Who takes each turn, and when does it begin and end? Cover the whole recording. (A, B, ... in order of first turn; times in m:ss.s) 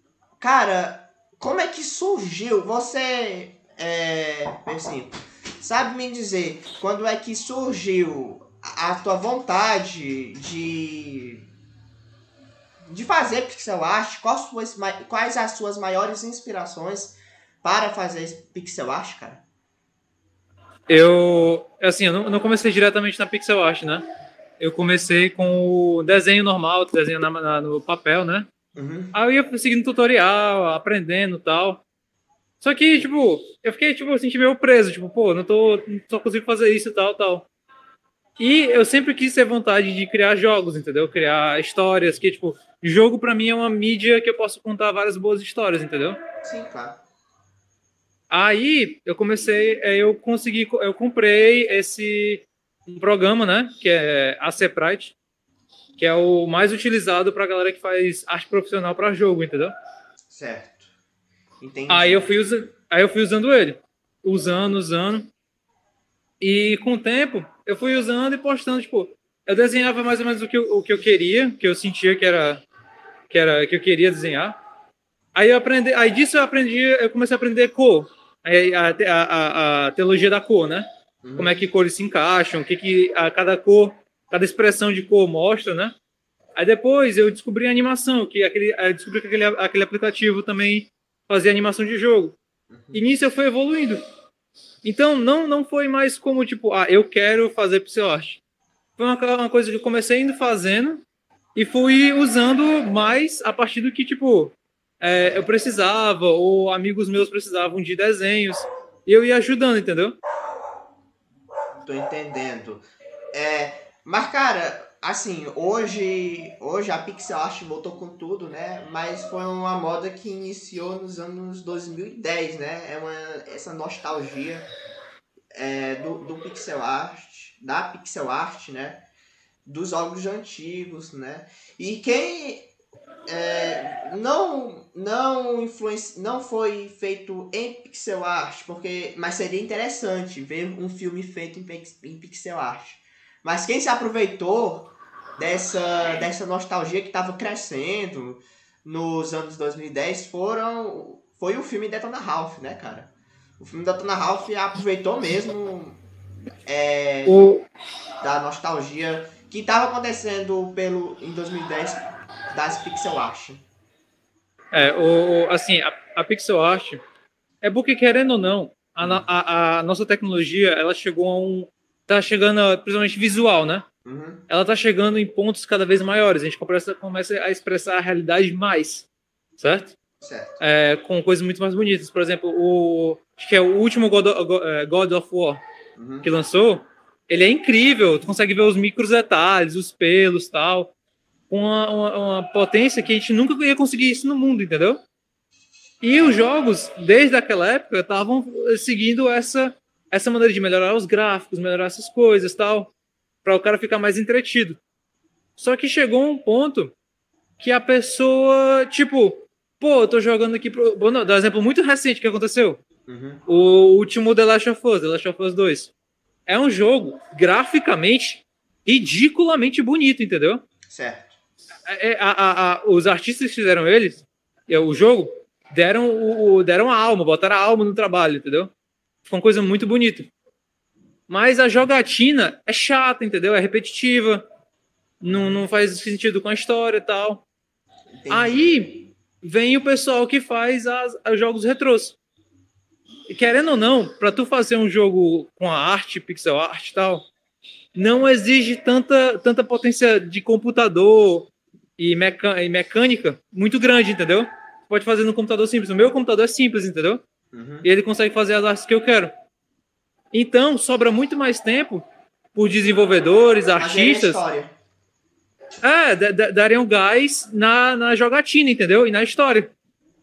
0:00.4-0:11.5 A
0:12.9-0:19.4 A
0:20.9-0:24.0 B
0:24.6-0:28.5 B
0:28.7-0:29.1 A
0:29.1-0:31.8 B
0:32.6-0:37.5 B
0:38.4-0:46.2 B
0:46.4-0:47.0 A
0:48.3-0:55.1 B
0:56.0-0:59.7 B
1:00.2-1:00.9 A
1:01.6-1:02.3 A
1:01.9-1:05.3 B
1:06.4-1:12.6 B
1:13.3-1:14.6 B
1:15.3-1:20.8 B
1:21.2-1:21.6 A
1:21.4-1:25.9 B
1:26.6-1:32.4 B
1:32.7-1:33.0 A
1:32.9-1:34.0 B
1:34.8-1:38.4 B
1:39.0-1:41.0 B
1:41.5-1:50.2 B
1:51.8-2:04.6 A
2:05.5-2:09.0 A
2:09.6-2:12.7 A
2:13.3-2:36.0 A
2:36.7-2:37.5 A
2:37.2-2:37.6 B
2:38.2-2:43.6 A
2:44.7-2:47.0 B
2:47.6-2:53.8 B
2:54.0-2:54.4 A
2:54.5-2:59.1 B
2:59.6-2:59.9 B
3:00.2-3:00.6 A
3:00.6-3:05.6 B
3:06.0-3:06.3 A
3:06.2-3:10.9 B
3:11.5-3:15.0 B
3:16.0-3:22.9 B
3:16.1-3:16.5 A
3:23.4-3:24.8 B
3:25.6-3:26.9 B
3:27.6-3:32.8 B
3:33.1-3:33.4 A
3:33.5-3:35.9 B
3:36.5-3:40.6 B
3:40.9-3:41.4 A
3:41.9-3:48.7 B
3:49.2-3:50.3 B
3:51.3-3:54.4 B
3:55.2-3:57.4 B
3:55.3-3:55.5 A
3:58.1-3:59.1 A
3:58.3-4:02.2 B
4:03.3-4:07.2 B
4:07.9-4:17.2 B
4:17.5-4:17.9 A
4:17.8-4:19.3 B
4:20.3-4:24.4 B
4:23.8-4:24.7 A
4:25.8-4:29.7 B